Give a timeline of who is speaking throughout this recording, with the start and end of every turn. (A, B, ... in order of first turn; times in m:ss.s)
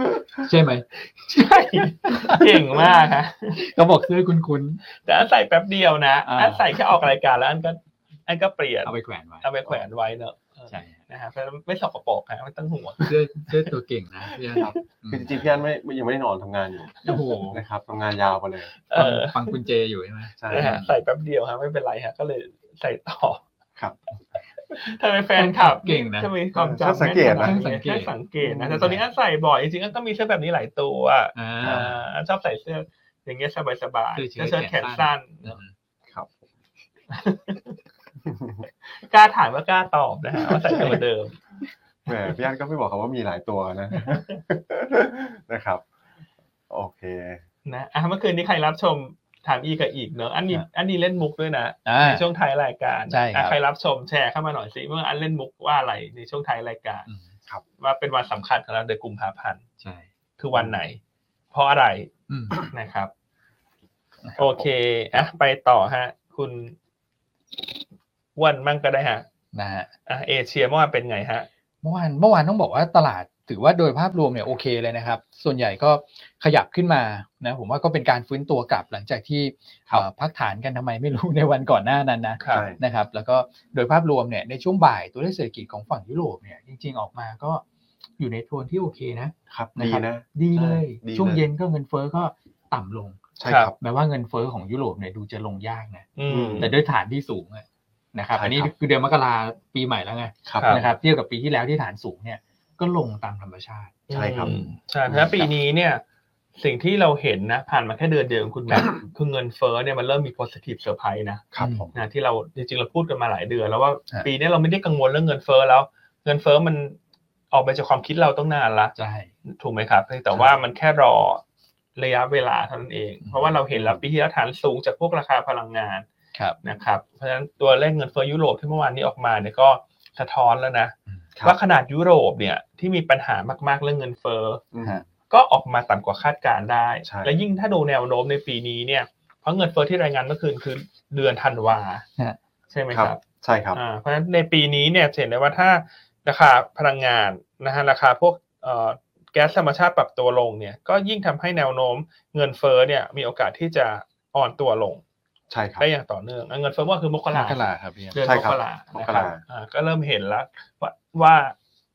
0:00.4-0:02.9 A
0:01.3-0:03.6 B
0:03.6-0:04.8 A
0:05.0-0:13.7 B
0:06.2-0:06.6 A
0:08.8-0:09.5 A
0:10.7-0:11.0 A
0:13.0-0:15.4 A
0:14.5-0:14.8 B
0:14.6-0:18.7 C
0:17.0-0:17.6 A
0:18.9-0:19.6 B
0:18.9-0:20.9 A
0:20.4-0:20.8 C
0:20.5-0:23.4 B
0:24.7-0:35.6 B
0:25.4-0:26.3 A
0:26.6-0:27.6 C
0:27.2-0:28.1 A
0:28.4-0:28.9 C
0:31.3-0:32.0 A
0:31.6-0:31.9 C
0:34.2-0:35.7 A
0:36.1-0:36.4 C
0:37.1-0:37.8 B
0:38.3-0:38.6 C
0:39.0-0:41.4 B
0:40.7-0:41.0 A
0:42.1-0:45.8 C
0:46.7-0:47.4 C
0:47.6-0:57.1 B
0:51.8-0:52.2 A
0:53.1-0:53.6 A
0:57.8-0:59.6 B
0:59.8-1:00.0 A
1:00.4-1:01.0 B
1:01.5-1:02.1 B
1:02.3-1:02.7 A
1:02.6-1:03.1 B
1:04.4-1:06.8 B
1:08.4-1:09.3 B
1:09.5-1:09.9 A
1:10.0-1:11.5 B
1:11.8-1:27.6 A
1:22.4-1:22.7 B
1:22.5-1:22.8 C
1:28.2-1:44.7 A
1:29.5-1:31.4 C
1:33.4-1:33.7 C
1:33.4-1:33.7 B
1:36.2-1:36.7 B
1:36.3-1:36.7 C
1:38.3-1:38.7 C
1:40.4-1:40.8 C
1:40.6-1:40.8 B
1:44.1-1:46.0 B
1:44.1-1:44.5 C
1:45.1-1:45.3 C
1:46.6-1:57.0 B
1:51.5-1:51.9 C
1:51.6-1:51.9 A
1:57.5-1:58.9 B
1:59.0-1:59.3 A
1:59.4-2:01.4 B
2:02.0-2:06.0 B
2:03.2-2:03.6 A
2:03.7-2:04.0 C
2:06.6-2:14.6 B
2:14.7-2:15.0 C
2:15.3-2:22.0 B
2:17.0-2:17.3 C
2:22.7-2:23.2 B
2:22.9-2:23.8 C
2:23.7-2:35.0 B
2:35.5-2:35.8 C
2:35.8-2:41.5 B
2:37.3-2:38.2 A
2:38.2-2:39.4 C